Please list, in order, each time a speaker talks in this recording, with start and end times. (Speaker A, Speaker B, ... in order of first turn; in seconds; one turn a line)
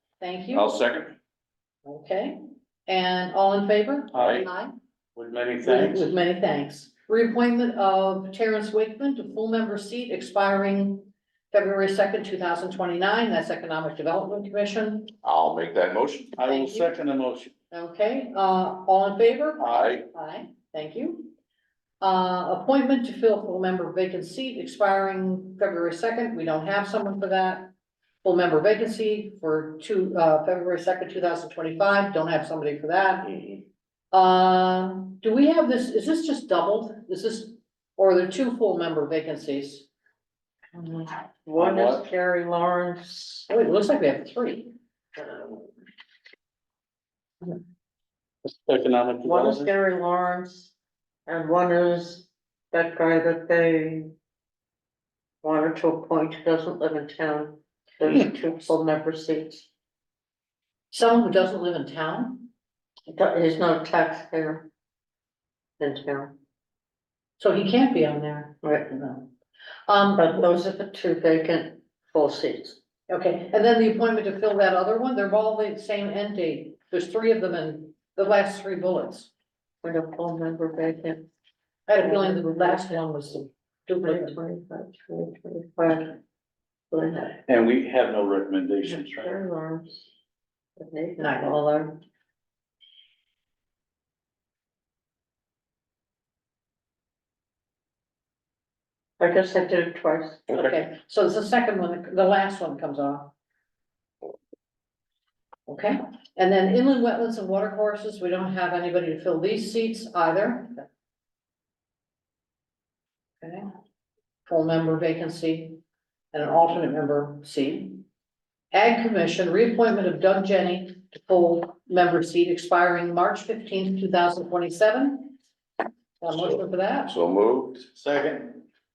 Speaker A: 0.2-0.7
Speaker B: 0.5-1.2
Speaker A: 1.9-4.7
Speaker C: 4.1-4.5
Speaker B: 4.2-4.5
Speaker C: 5.2-6.1
Speaker A: 5.6-15.2
Speaker B: 15.2-16.4
Speaker C: 16.4-17.5
Speaker A: 16.4-16.9
Speaker A: 17.7-21.3
Speaker C: 19.6-20.0
Speaker B: 19.7-20.0
Speaker A: 22.0-27.7
Speaker A: 28.2-33.5
Speaker A: 34.1-39.9
Speaker D: 40.7-43.5
Speaker C: 41.6-42.1
Speaker A: 43.5-44.7
Speaker C: 48.5-49.7
Speaker D: 49.2-50.7
Speaker D: 51.3-54.1
Speaker D: 55.4-59.7
Speaker A: 60.9-62.5
Speaker D: 63.1-64.7
Speaker D: 65.8-66.3
Speaker A: 67.4-69.3
Speaker D: 68.6-68.9
Speaker A: 69.9-70.4
Speaker D: 70.1-72.8
Speaker A: 73.1-79.3
Speaker D: 79.8-81.3
Speaker A: 81.9-84.4
Speaker D: 82.0-82.9
Speaker D: 84.0-86.2
Speaker D: 86.9-87.4
Speaker C: 87.5-89.3
Speaker D: 88.8-90.1
Speaker D: 90.8-92.0
Speaker A: 91.2-91.7
Speaker D: 99.2-100.5
Speaker A: 100.5-103.3
Speaker A: 105.7-110.9
Speaker A: 113.4-113.7
Speaker A: 114.5-115.8
Speaker A: 116.3-118.1
Speaker A: 118.7-125.3
Speaker A: 126.2-127.1
Speaker B: 126.3-127.9
Speaker C: 128.0-128.6